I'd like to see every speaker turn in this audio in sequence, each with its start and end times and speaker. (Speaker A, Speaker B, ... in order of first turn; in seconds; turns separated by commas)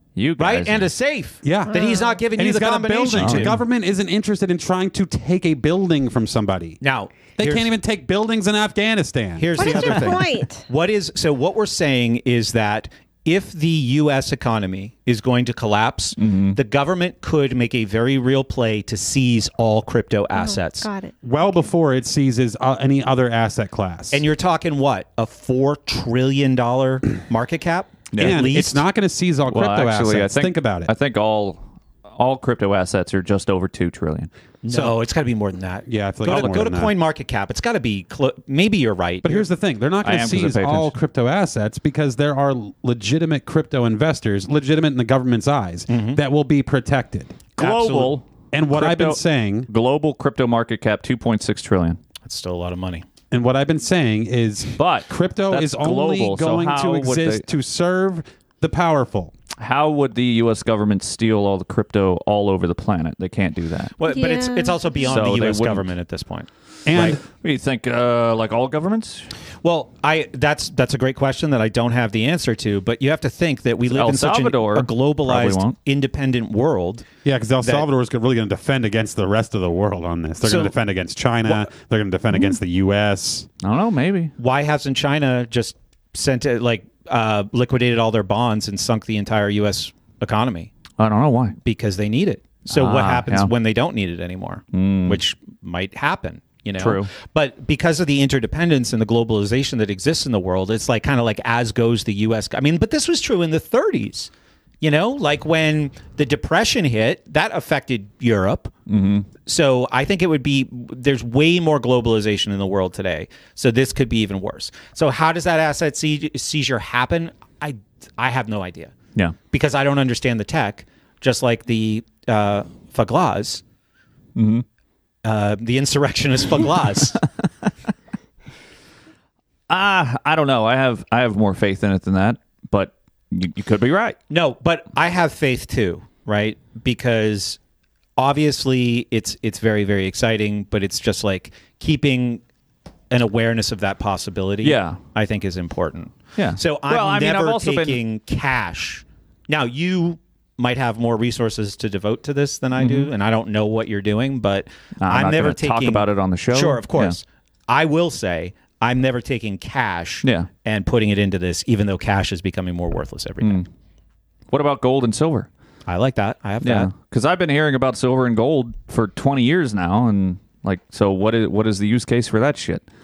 Speaker A: 0.2-0.9, Speaker B: 0.4-3.5, Speaker C: 1.4-6.8, Speaker D: 1.7-2.2, Speaker A: 3.2-3.6, Speaker B: 6.8-7.7, Speaker C: 7.4-10.2, Speaker B: 9.4-20.9, Speaker D: 9.6-10.7, Speaker A: 16.2-16.6, Speaker D: 20.4-21.1, Speaker C: 21.2-24.2, Speaker B: 24.1-28.8, Speaker A: 28.1-28.5, Speaker C: 28.2-30.9, Speaker A: 29.5-31.6, Speaker A: 32.1-34.3, Speaker B: 34.6-39.5, Speaker C: 34.7-35.0, Speaker C: 35.9-36.9, Speaker A: 36.3-36.5, Speaker C: 39.2-47.4, Speaker A: 40.0-40.9, Speaker B: 45.9-46.2, Speaker B: 47.6-48.1, Speaker A: 47.6-52.0, Speaker C: 48.5-49.7, Speaker B: 52.2-53.0, Speaker C: 53.3-59.3, Speaker A: 54.8-57.4, Speaker A: 59.6-63.9, Speaker B: 64.0-66.5, Speaker D: 64.0-65.1, Speaker A: 65.0-65.9, Speaker C: 66.9-67.2, Speaker A: 66.9-69.3, Speaker B: 69.6-77.1, Speaker A: 73.9-75.8, Speaker C: 77.2-83.5, Speaker B: 80.4-80.7, Speaker A: 83.6-84.3, Speaker B: 84.4-90.8, Speaker A: 91.0-91.6, Speaker B: 91.6-104.3, Speaker A: 92.7-93.5, Speaker A: 94.7-95.2, Speaker A: 96.8-97.1, Speaker B: 104.8-108.7, Speaker A: 108.9-109.3, Speaker B: 109.5-118.9, Speaker B: 119.5-123.6, Speaker A: 124.4-124.7, Speaker B: 125.2-127.2, Speaker A: 129.7-134.2, Speaker B: 134.3-137.6, Speaker B: 138.2-142.4, Speaker B: 143.1-163.7, Speaker A: 144.6-145.0, Speaker A: 146.4-148.0, Speaker A: 152.8-153.1, Speaker A: 155.0-157.2, Speaker A: 160.2-160.5, Speaker A: 164.5-165.5, Speaker B: 165.9-166.9, Speaker A: 166.6-172.8